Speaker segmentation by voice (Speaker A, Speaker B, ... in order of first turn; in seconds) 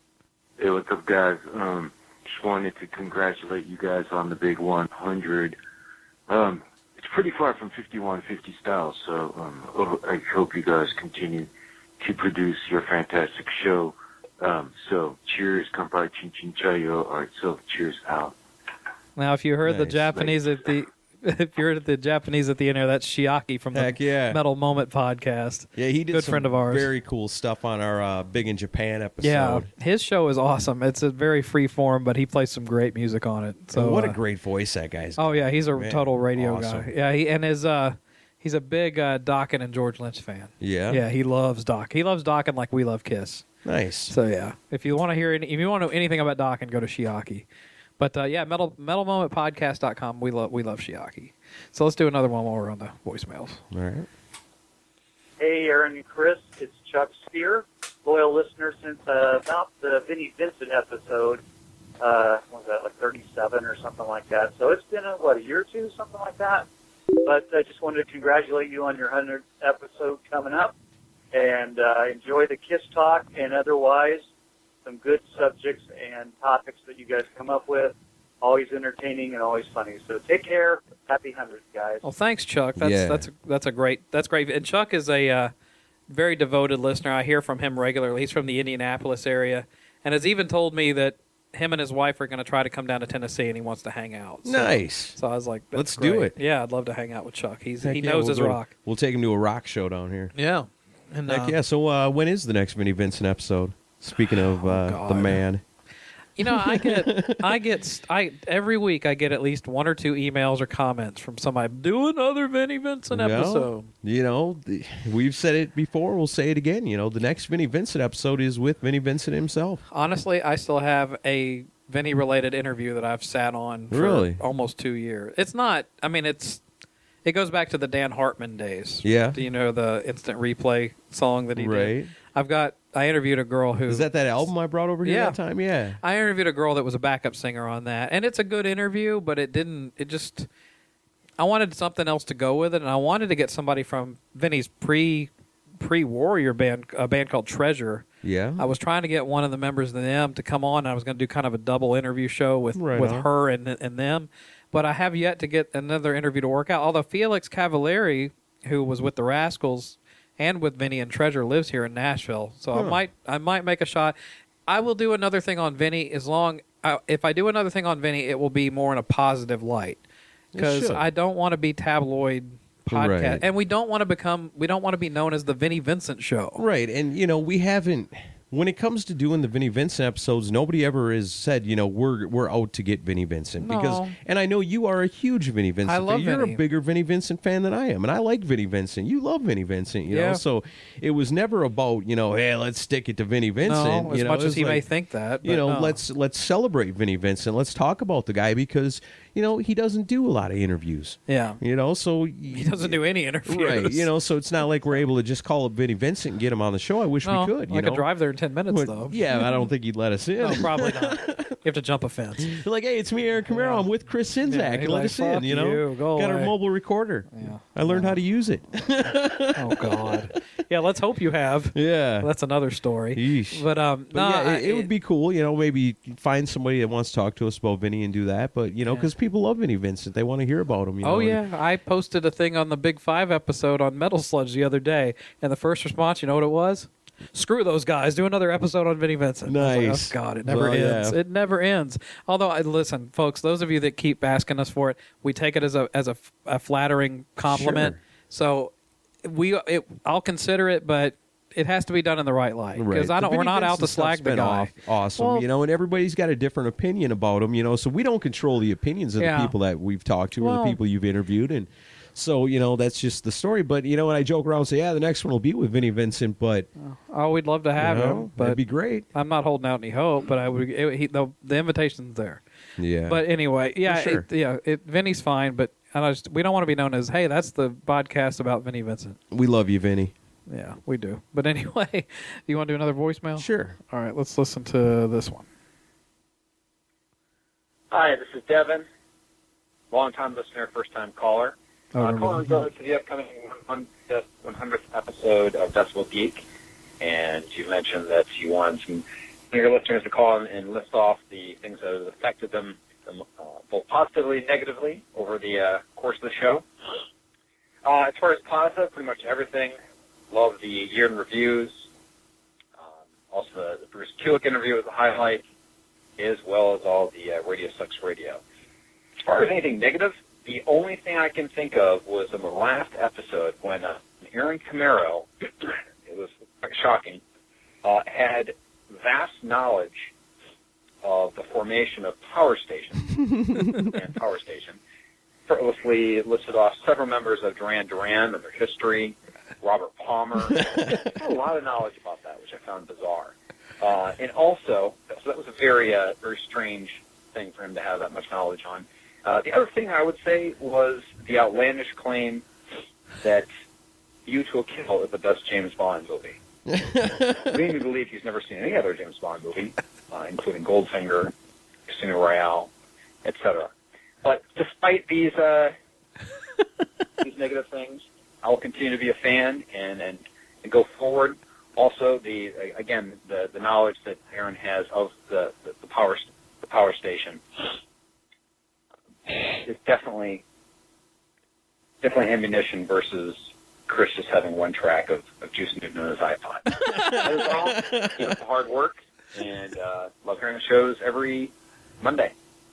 Speaker A: 0.6-5.5, 6.3-18.3
Speaker B: 19.1-26.9, 29.2-34.2, 35.2-43.5, 44.1-47.5, 48.0-53.6, 82.0-85.5, 86.1-98.7, 100.3-101.5, 104.6-105.4, 106.4-113.9, 119.9-126.6, 127.2-134.1, 135.0-135.4, 136.0-140.5, 141.4-148.0, 148.6-164.1, 164.7-170.0, 170.6-176.6, 183.6-184.2, 185.8-186.6, 190.1-190.4, 193.6-196.0, 201.3-201.6, 202.5-204.1, 207.2-209.2, 210.4-212.5, 213.5-213.8, 214.4-216.5, 217.3-218.2, 219.6-224.9, 231.0-248.7, 249.2-255.4, 259.2-259.5, 260.4-260.8, 266.8-268.6, 269.1-272.4, 273.1-279.2, 280.5-285.4, 291.9-292.6
Speaker C: 19.6-20.4, 23.7-24.4, 25.8-29.7, 33.7-36.9, 40.6-41.0, 43.6-44.1, 53.7-54.1, 82.8-83.2, 94.4-95.2, 95.7-96.3, 97.8-100.3, 101.3-105.6, 106.4-107.6, 113.1-119.8, 123.9-124.4, 129.0-129.4, 131.6-132.1, 133.9-136.0, 148.2-148.7, 152.7-153.3, 162.7-163.0, 170.5-171.1, 172.9-173.4, 176.6-194.8, 195.4-208.1, 208.7-211.5, 212.4-220.2, 221.7-222.3, 223.1-231.4, 239.4-241.2, 247.4-248.0, 252.7-266.7, 267.8-269.0, 272.8-273.2, 273.8-274.2, 279.3-280.1, 283.4-283.8, 333.4-333.9, 340.5-341.1, 356.7-357.5, 386.9-388.3
Speaker D: 55.4-61.4, 62.0-66.7, 67.2-70.7, 71.3-74.2, 74.8-82.0
Speaker E: 287.9-288.8, 289.9-296.4, 297.0-306.6, 307.8-309.7, 310.3-311.9, 312.8-315.4, 316.2-318.4, 319.2-325.3, 326.0-327.2, 327.8-330.1, 331.0-333.1, 333.8-334.8, 335.5-352.4, 353.2-353.5, 354.2-356.4, 357.5-361.3, 361.9-362.7, 363.2-363.7, 364.2-365.7, 367.2-377.4, 379.3-380.4, 382.0-392.3